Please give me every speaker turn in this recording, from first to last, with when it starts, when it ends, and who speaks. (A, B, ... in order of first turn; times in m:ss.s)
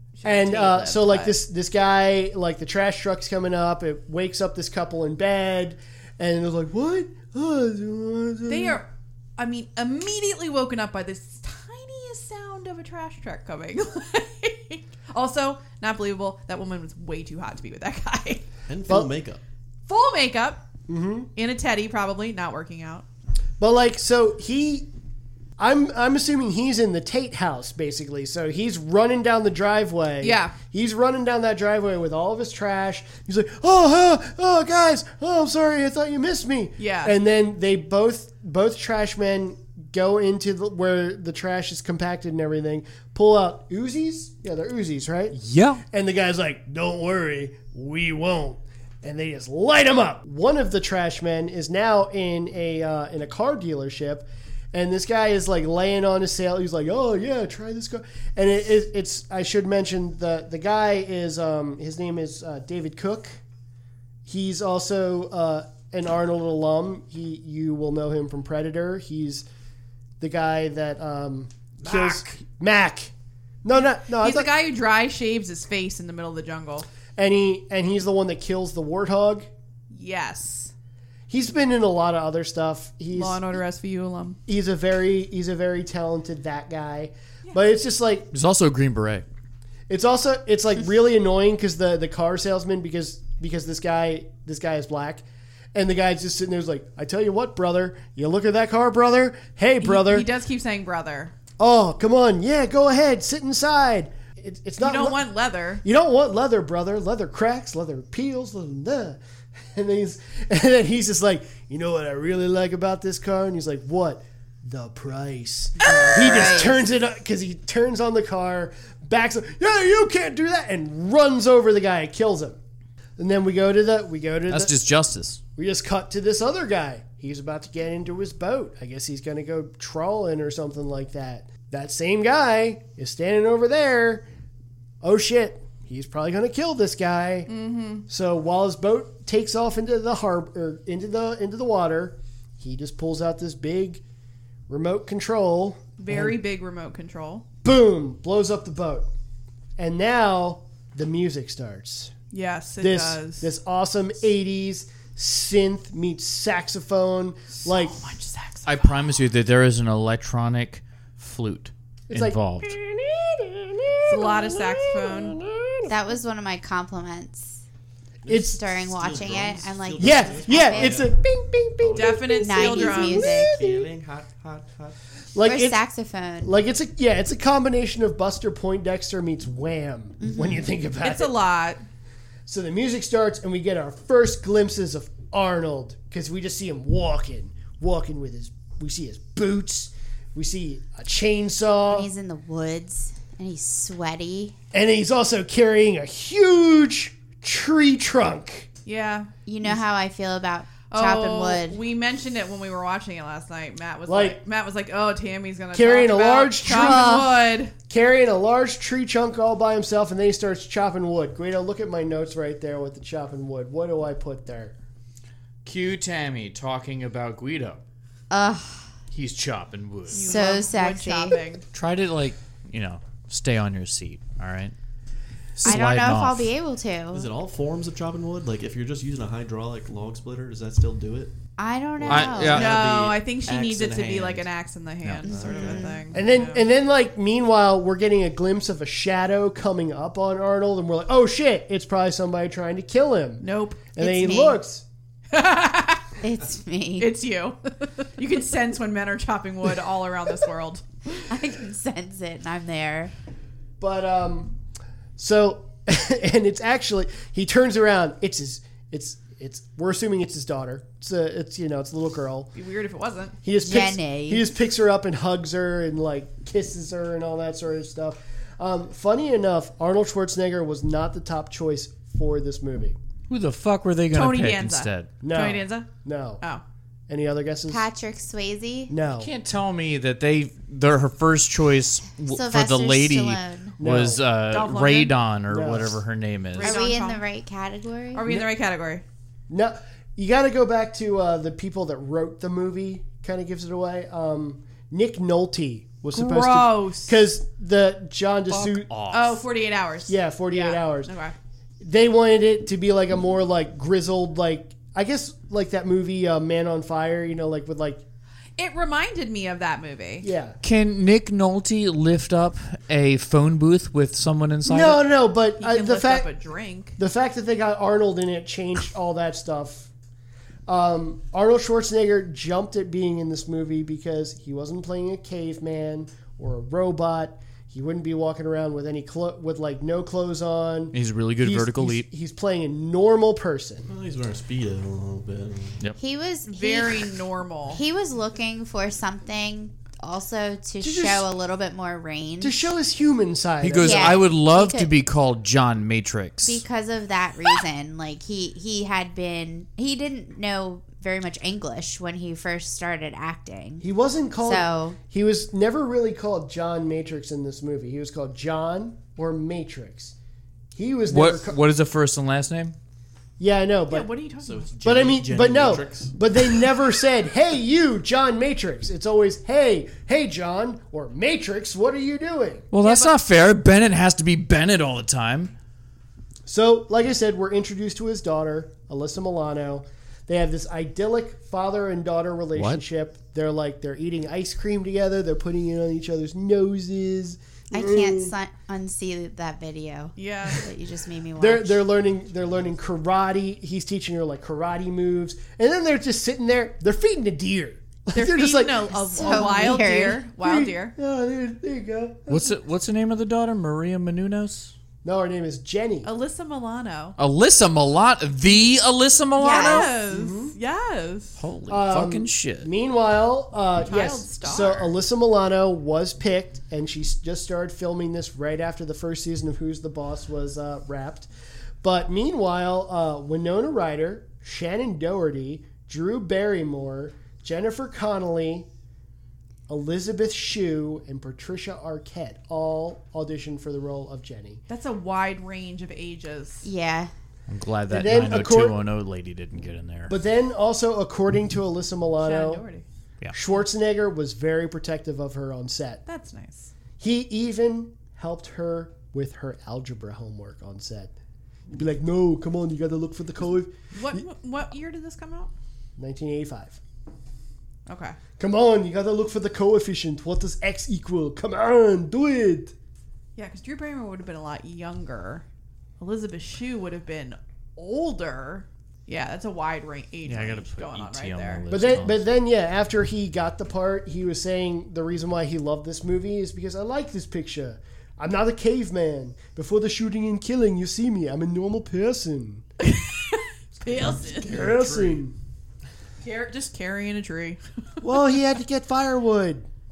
0:00.2-0:01.4 A
0:00.2-0:08.8 B
0:08.5-0:18.4 A
0:18.7-0:19.4 C
0:19.9-0:20.6 A
0:20.9-0:21.3 B
0:21.3-0:23.0 A
0:23.6-0:24.9 B
0:25.6-0:45.4 B
0:30.2-0:30.6 A
0:36.8-0:37.2 A
0:45.3-0:45.8 D
0:45.9-1:03.4 B
1:04.2-1:09.4 B
1:10.2-1:13.1 B
1:13.6-1:14.5 B
1:14.1-1:16.9 A
1:17.2-1:19.5 B
1:19.9-1:20.7 A
1:21.3-1:23.4 B
1:23.1-1:24.4 A
1:24.5-1:28.3 B
1:28.3-1:29.2 D
1:29.9-1:40.3 B
1:39.8-1:41.3 A
1:41.6-1:45.2 B
1:44.8-1:45.8 A
1:45.8-2:02.6 B
1:55.8-1:56.8 E
2:03.2-2:04.8 B
2:04.5-2:05.4 D
2:05.6-2:14.3 B
2:15.0-2:17.5 B
2:17.5-2:18.0 A
2:18.1-2:24.0 B
2:24.7-2:26.4 B
2:26.0-2:27.4 A
2:27.6-2:29.1 B
2:29.8-2:32.1 B
2:32.3-2:33.5 A
2:32.8-2:38.0 B
2:37.6-2:39.1 A
2:38.6-2:42.8 D
2:42.1-2:46.0 B
2:44.1-2:45.4 A
2:45.9-2:47.6 E
2:48.2-2:51.1 C
2:48.3-2:48.6 B
2:48.3-2:51.0 E
2:50.0-2:53.9 B
2:51.8-2:52.2 C
2:52.0-2:53.4 A
2:52.4-2:53.6 E
2:53.2-2:55.0 C
2:55.3-2:55.8 B
2:55.4-2:56.5 E
2:56.4-3:01.4 B
3:00.2-3:00.6 E
3:01.0-3:01.8 A
3:02.5-3:12.1 B
3:11.9-3:14.5 E
3:14.7-3:18.7 B
3:18.8-3:19.3 A
3:19.4-3:21.8 E
3:20.9-3:27.7 A
3:24.0-3:24.4 B
3:25.7-3:27.3 B
3:26.7-3:27.3 E
3:27.9-3:34.7 B
3:35.6-3:37.8 D
3:38.3-3:38.9 E
3:39.1-3:40.4 D
3:40.1-3:41.4 E
3:40.1-3:41.6 A
3:41.7-3:44.7 D
3:45.6-3:46.5 D
3:45.6-3:47.3 E
3:47.1-3:51.3 C
3:51.6-3:52.7 E
3:52.0-3:54.5 C
3:52.1-3:52.8 D
3:52.5-3:56.6 A
3:55.2-3:56.0 C
3:55.3-3:56.0 E
3:56.1-4:04.8 B
4:03.4-4:03.9 A
4:04.0-4:04.6 E
4:05.3-4:06.1 A
4:06.2-4:07.1 E
4:07.0-4:10.8 A
4:11.1-4:13.1 E
4:13.8-4:14.6 B
4:15.2-4:22.5 B
4:22.5-4:23.4 A
4:23.4-4:33.0 B
4:23.6-4:24.5 E
4:33.3-4:35.1 D
4:34.1-4:35.9 A
4:35.2-4:36.4 B
4:37.1-4:37.9 B
4:37.7-4:38.9 E
4:38.9-4:39.3 B
4:39.1-4:46.8 D
4:42.3-4:43.7 E
4:43.8-4:44.2 B
4:44.5-4:45.2 A
4:45.5-4:46.0 B
4:46.5-4:47.2 A
4:46.6-4:48.2 E
4:48.1-4:49.0 A
4:49.5-4:58.9 B
4:56.1-4:57.2 A
4:58.5-4:59.4 D
4:59.1-5:01.4 A
5:00.0-5:01.1 B
5:01.8-5:08.0 B
5:08.6-5:10.3 A
5:10.2-5:10.6 B
5:10.6-5:15.0 D
5:14.6-5:16.3 B
5:15.6-5:17.0 A
5:17.0-5:19.9 B
5:20.7-5:33.9 B
5:30.9-5:32.1 D
5:33.8-5:35.8 C
5:36.0-5:37.2 E
5:36.5-5:37.8 A
5:37.7-5:42.7 E
5:40.8-5:41.3 B
5:42.4-5:44.3 B
5:43.6-5:46.6 D
5:43.8-5:44.9 E
5:46.4-5:53.8 E
5:53.8-6:00.1 B
5:54.4-5:55.0 E
6:00.7-6:01.6 B
6:01.1-6:02.8 D
6:03.4-6:04.1 B
6:03.9-6:04.7 A
6:04.4-6:06.2 C
6:04.8-6:12.7 B
6:12.7-6:15.5 D
6:12.8-6:13.1 A
6:16.4-6:28.3 B
6:22.5-6:22.8 D
6:27.7-6:31.8 E
6:30.2-6:30.6 A
6:31.4-6:39.9 B
6:38.1-6:40.9 A
6:38.9-6:40.2 E
6:40.4-6:42.6 B
6:42.3-6:44.7 D
6:45.0-6:46.1 B
6:46.0-6:47.2 A
6:47.2-6:49.9 D
6:49.4-6:49.9 E
6:49.5-6:51.4 A
6:50.1-6:50.5 B
6:51.4-6:52.7 D
6:51.7-7:01.3 B
6:53.8-6:54.9 A
7:01.8-7:08.7 B
7:09.7-7:14.6 B
7:14.7-7:16.6 A
7:16.6-7:17.1 E
7:17.5-7:20.1 D
7:17.9-7:18.8 B
7:20.1-7:22.6 B
7:22.2-7:22.8 A
7:23.3-7:26.0 B
7:26.0-7:26.7 A
7:27.0-7:31.1 B
7:31.7-7:34.2 B
7:33.9-7:35.5 A
7:36.0-7:36.8 B
7:37.9-7:38.2 A
7:38.4-7:42.7 B
7:43.4-7:45.4 A
7:46.0-7:51.6 A
7:50.2-7:52.2 D
7:51.7-8:02.6 B
8:02.8-8:04.6 A
8:03.9-8:05.2 C
8:04.4-8:05.4 B
8:06.2-8:07.6 A
8:08.0-8:09.7 B